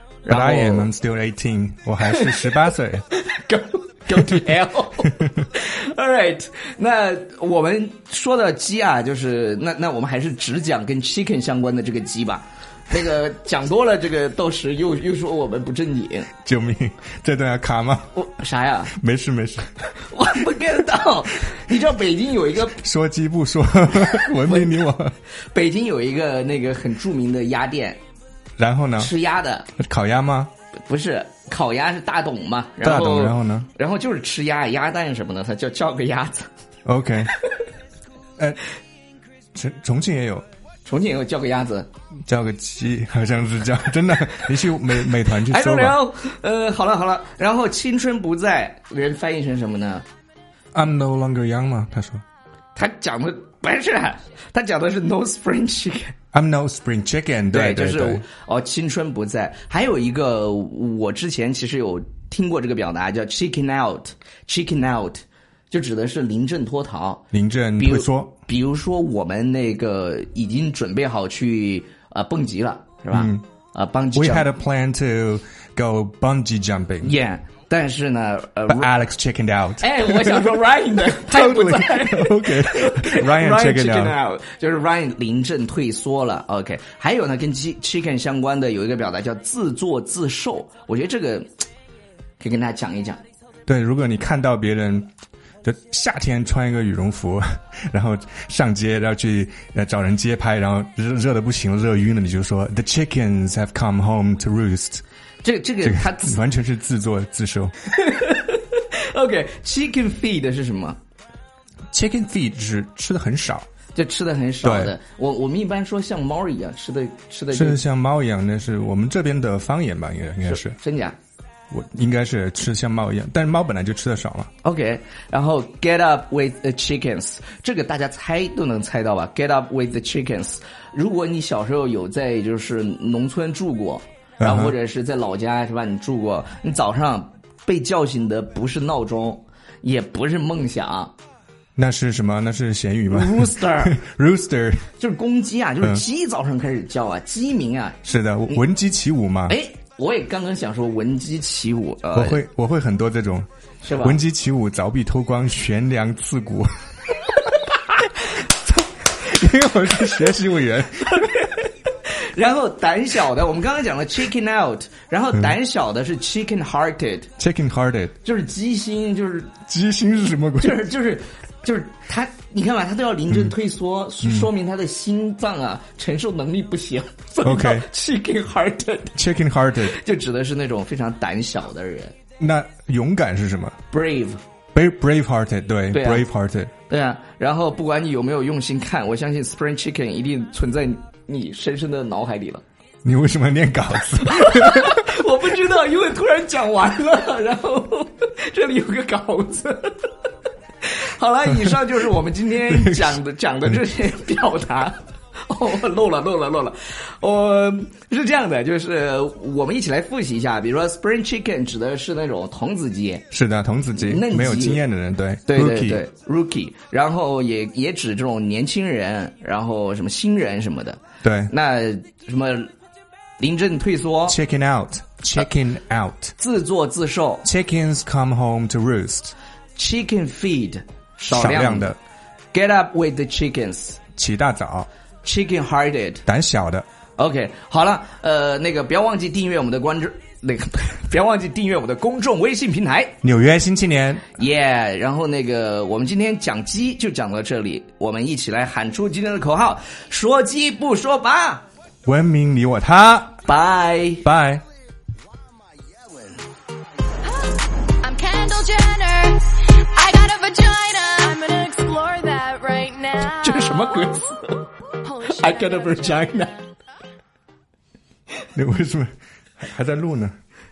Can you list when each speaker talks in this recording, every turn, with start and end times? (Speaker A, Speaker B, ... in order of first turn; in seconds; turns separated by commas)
Speaker A: 0.2-0.9, Speaker B: 0.3-3.0, Speaker A: 2.0-16.3, Speaker B: 16.4-18.1, Speaker A: 18.1-18.9, Speaker B: 18.9-19.8, Speaker A: 19.9-22.8, Speaker B: 22.7-25.2, Speaker A: 24.1-24.8, Speaker A: 25.5-28.0, Speaker B: 28.6-29.1, Speaker A: 29.0-29.7, Speaker B: 29.8-30.5, Speaker A: 30.9-36.5, Speaker B: 32.8-33.7, Speaker B: 36.9-37.3, Speaker B: 39.5-40.5, Speaker A: 40.9-41.9, Speaker B: 42.3-46.0, Speaker A: 45.3-50.0, Speaker B: 50.7-52.2, Speaker A: 52.8-56.1, Speaker B: 56.3-58.2, Speaker A: 57.5-67.3, Speaker B: 67.3-68.3, Speaker A: 67.8-74.5, Speaker B: 73.1-73.4, Speaker B: 74.2-77.1, Speaker A: 77.0-78.9, Speaker B: 78.7-84.2, Speaker A: 79.8-91.5, Speaker A: 92.4-93.2, Speaker B: 93.7-95.1, Speaker B: 95.6-105.0, Speaker A: 105.4-106.4, Speaker B: 105.8-107.7, Speaker A: 107.9-111.0, Speaker B: 111.9-113.7, Speaker A: 114.0-117.8, Speaker B: 114.6-114.9, Speaker B: 117.5-120.8, Speaker A: 120.4-121.2, Speaker B: 121.7-124.5, Speaker A: 124.6-141.1, Speaker B: 134.4-134.7, Speaker B: 141.8-144.9, Speaker A: 143.1-144.0, Speaker A: 145.0-148.6, Speaker B: 148.1-149.6, Speaker A: 149.5-152.4, Speaker B: 152.1-153.5, Speaker A: 153.8-154.2, Speaker B: 154.0-156.8, Speaker B: 158.4-161.3, Speaker A: 161.0-167.3, Speaker B: 167.4-168.2, Speaker A: 168.2-169.6, Speaker B: 169.7-170.8, Speaker A: 170.6-179.2, Speaker B: 174.2-174.5, Speaker B: 177.4-177.9, Speaker B: 179.2-180.0, Speaker A: 179.8-182.2, Speaker B: 182.4-183.8, Speaker A: 183.9-184.4, Speaker B: 184.7-186.7, Speaker A: 185.9-186.2, Speaker A: 186.9-192.6, Speaker B: 193.0-195.1, Speaker A: 194.2-200.0, Speaker A: 200.8-213.3, Speaker B: 202.7-203.2, Speaker B: 213.3-216.0, Speaker A: 214.0-214.8, Speaker A: 215.5-222.7, Speaker B: 221.2-221.5, Speaker A: 223.4-224.4, Speaker B: 224.3-226.3, Speaker A: 226.4-227.5, Speaker B: 227.4-229.3, Speaker A: 229.8-231.9, Speaker B: 231.3-232.0, Speaker A: 232.5-234.0, Speaker B: 234.2-234.9, Speaker A: 235.2-236.2, Speaker B: 236.3-236.9, Speaker A: 237.2-243.2, Speaker B: 243.2-244.3, Speaker A: 244.3-251.6, Speaker B: 252.1-253.4, Speaker A: 253.5-254.3, Speaker B: 254.2-254.6, Speaker C: 258.0-263.8, Speaker A: 263.3-266.6, Speaker C: 265.1-266.0, Speaker B: 268.6-269.1, Speaker B: 269.6-270.4